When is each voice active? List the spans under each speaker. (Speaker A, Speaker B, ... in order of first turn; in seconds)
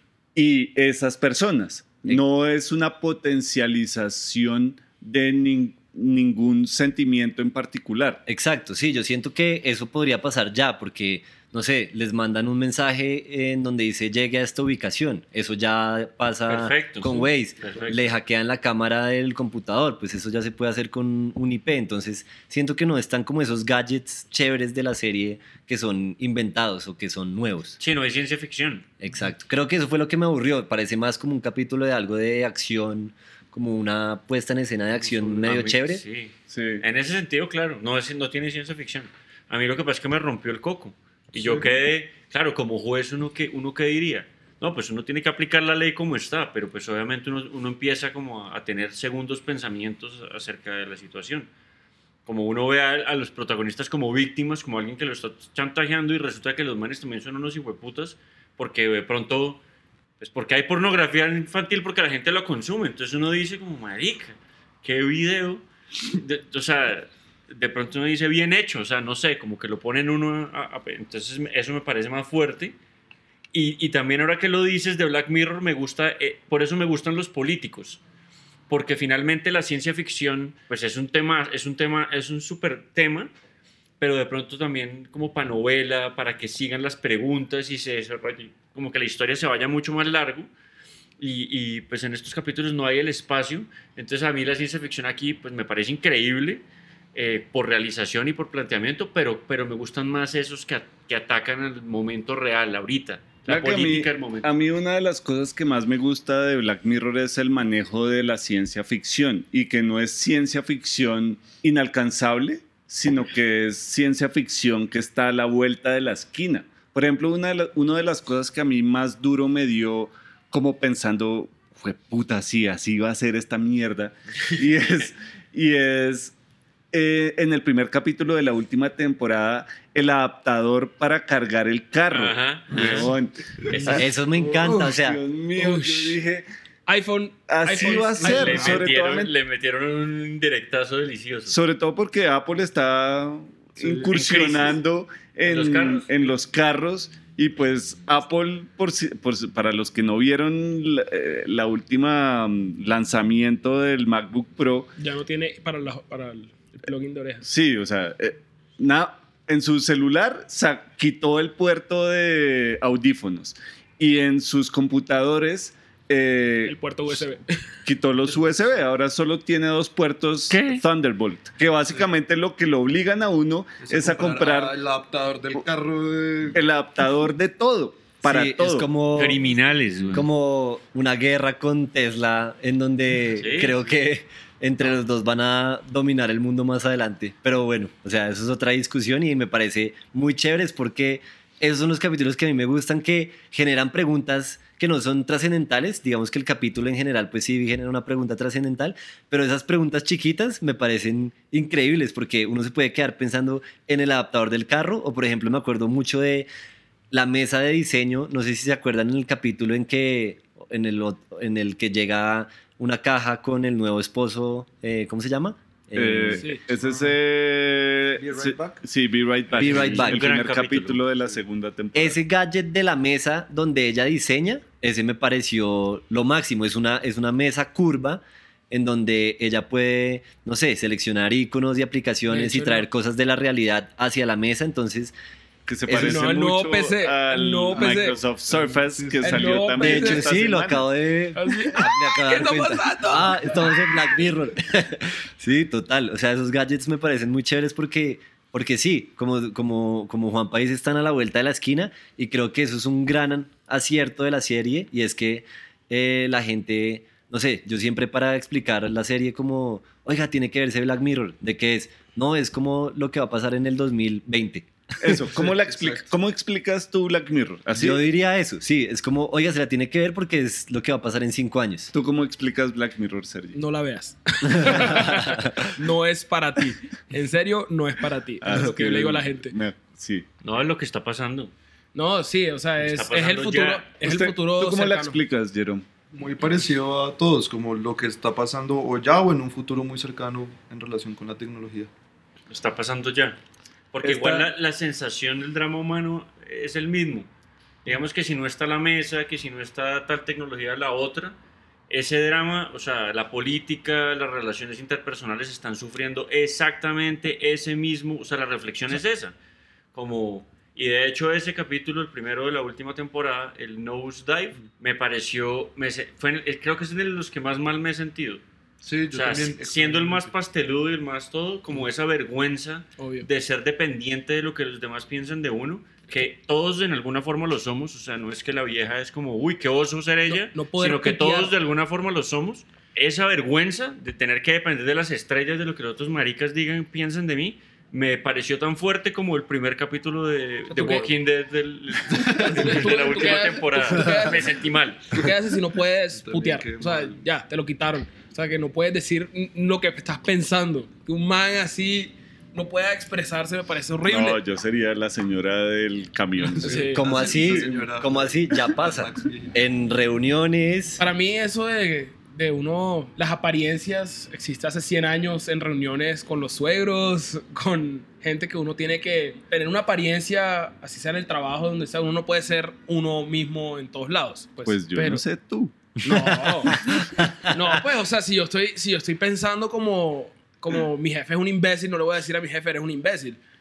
Speaker A: 0.3-8.2, 36.5-36.8, 103.5-126.3, 126.9-136.4, 137.5-139.3, 141.5-154.9, 157.4-167.2, 167.8-174.8, 176.5-178.9, 215.9-222.2, 235.7-240.9, 265.0-268.0, 271.9-273.6, 278.4-280.3, 284.0-285.9, 354.1-356.9, 374.6-377.3
Speaker B: 8.3-27.8, 29.0-36.0, 133.9-135.2, 178.2-179.4, 180.1-206.5, 207.1-216.5, 219.6-220.3, 221.9-235.1, 235.9-236.3, 239.8-265.2, 267.7-271.9, 356.9-361.0
Speaker C: 16.5-18.1, 27.8-28.9, 35.0-51.5, 52.2-59.6, 60.2-72.8, 73.5-78.0, 78.7-83.3, 84.0-90.5, 91.2-104.5, 132.1-133.2, 133.7-134.1, 137.8-141.6, 144.1-144.8, 145.4-146.2, 170.5-170.8, 179.1-180.3, 183.4-183.8, 219.5-221.0, 280.4-281.5, 282.8-283.9, 292.5-293.4, 293.9-297.3, 297.9-301.4, 301.9-309.3, 309.9-318.4, 319.1-345.2
Speaker D: 41.3-41.7, 133.7-134.0, 138.4-138.8, 143.8-144.5, 173.8-176.6, 216.8-217.1, 218.2-218.8, 238.5-239.7, 265.4-266.1, 286.1-291.9, 294.0-294.4, 318.8-320.3, 346.1-347.2, 356.6-359.6
Speaker E: 135.6-136.2, 136.9-138.8, 155.0-157.4, 166.7-167.7, 216.4-216.7, 232.3-232.9, 235.9-238.2, 239.2-240.3, 241.3-243.8, 273.5-279.6, 281.9-285.2, 323.0-323.3, 330.3-331.5, 340.7-341.1, 342.1-344.5, 345.1-354.4, 356.6-357.1, 361.0-375.2, 376.0-383.4